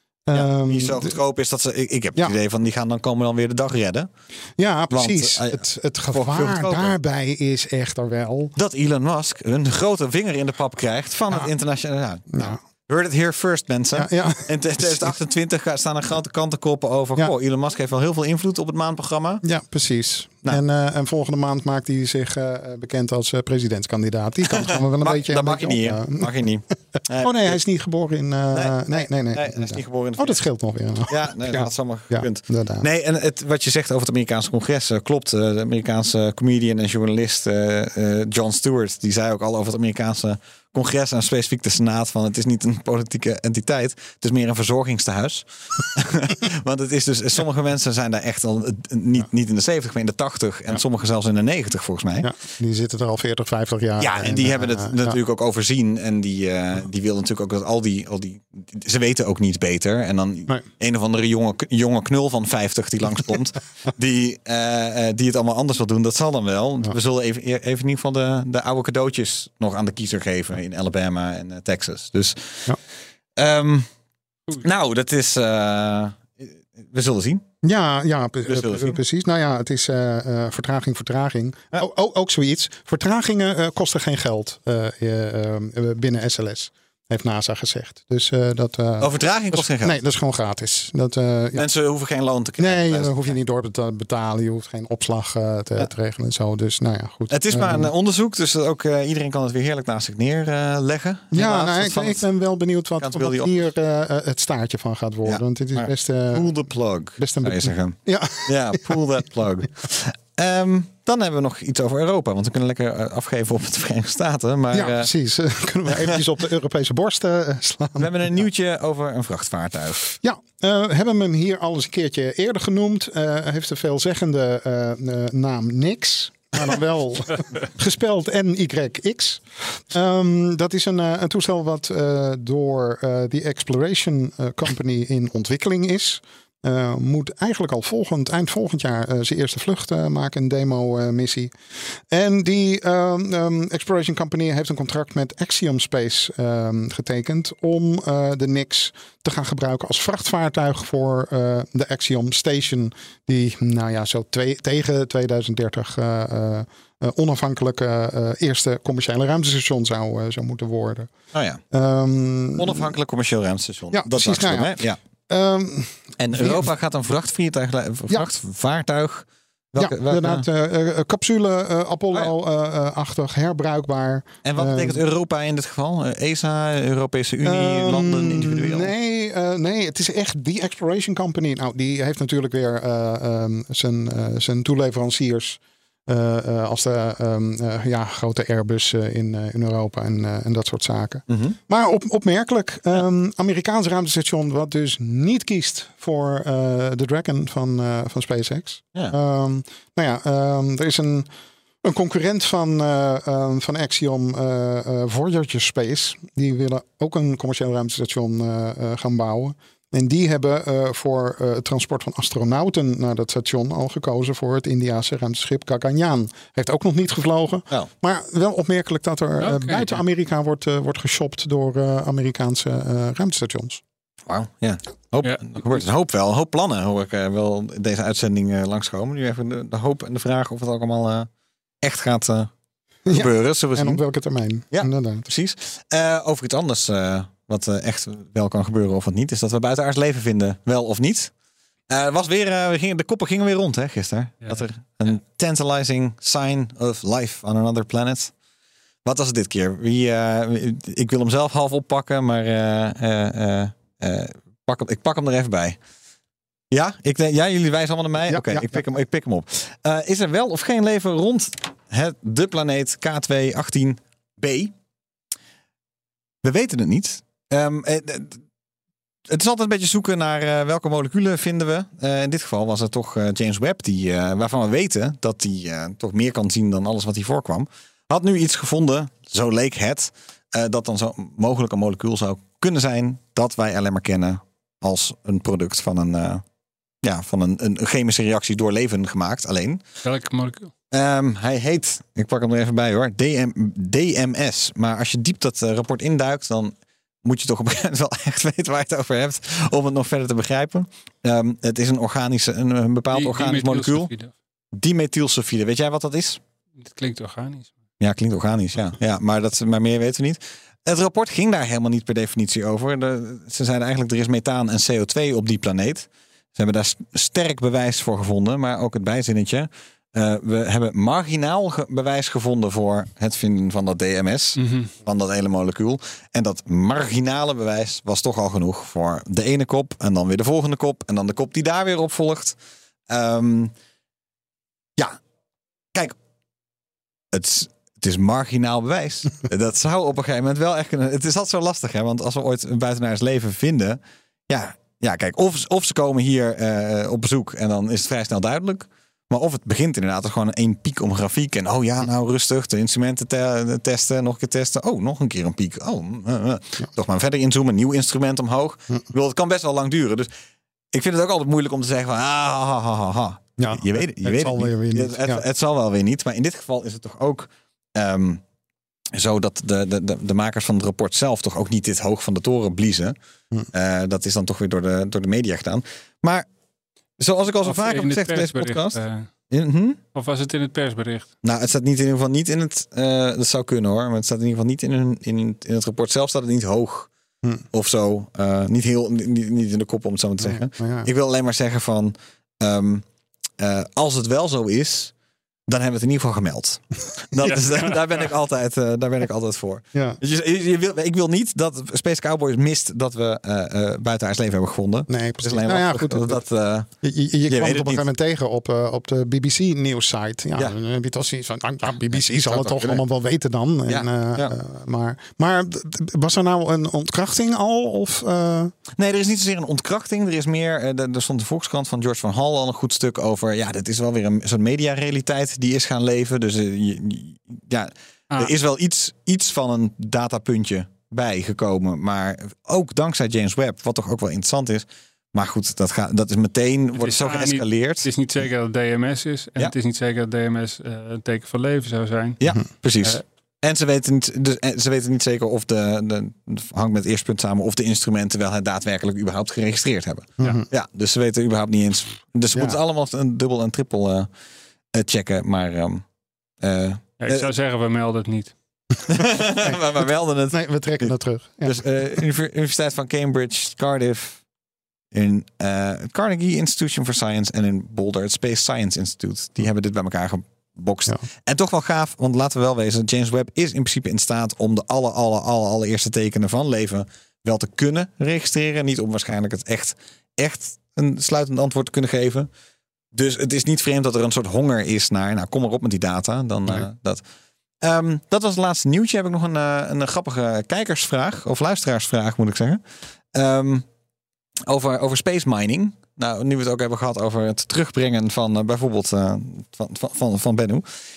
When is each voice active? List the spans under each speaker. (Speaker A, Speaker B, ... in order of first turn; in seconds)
Speaker A: 0.3-1.1, 4.6-8.5, 12.3-12.6, 13.9-15.1, 19.4-26.2, 27.2-32.8, 52.2-55.1, 77.6-91.6, 92.6-97.9, 101.3-106.5, 107.2-109.0, 114.7-118.1, 120.2-141.5, 142.1-161.1, 161.7-162.9, 163.9-166.7, 169.8-175.0, 177.4-201.3, 201.8-223.8, 233.1-235.2, 258.3-258.8, 363.6-365.4, 390.4-391.1, 405.1-406.4, 407.0-418.7, 450.4-450.6, 459.6-459.9, 460.5-461.8
Speaker B: 0.3-4.1, 4.9-6.9, 8.6-19.4, 24.4-27.6, 28.5-30.4, 31.1-52.3, 54.0-72.8, 73.3-73.9, 74.6-77.4, 78.5-79.0, 89.0-90.0, 91.5-93.3, 97.3-102.2, 103.0-103.5, 105.2-115.1, 115.9-116.2, 118.0-120.1, 161.3-161.6, 162.6-165.0, 166.2-170.4, 174.4-178.9, 191.3-191.6, 224.3-231.3, 231.8-232.5, 233.1-234.0, 234.7-241.3, 241.9-248.3, 249.0-255.8, 256.7-264.7, 266.4-268.4, 269.3-286.4, 287.0-289.8, 290.9-304.1, 304.7-306.4, 308.0-332.6, 333.1-333.7, 337.3-360.3, 360.9-368.4, 369.1-373.1, 373.7-376.5, 377.2-380.0, 381.4-387.1, 387.7-393.0, 393.6-395.1, 395.7-406.9, 407.5-408.1, 412.1-413.0, 413.9-414.5, 418.9-438.1, 442.4-454.3, 454.9-456.0, 456.6-457.5, 459.1-464.4, 465.1-482.5, 483.1-487.2, 487.8-492.8, 493.3-493.8, 494.7-500.8
Speaker C: 219.4-220.0, 225.2-225.8, 290.0-290.7, 303.1-304.3, 306.8-307.7, 324.6-324.9, 377.6-379.3, 380.1-381.3, 397.5-398.0, 437.0-442.4, 457.2-458.5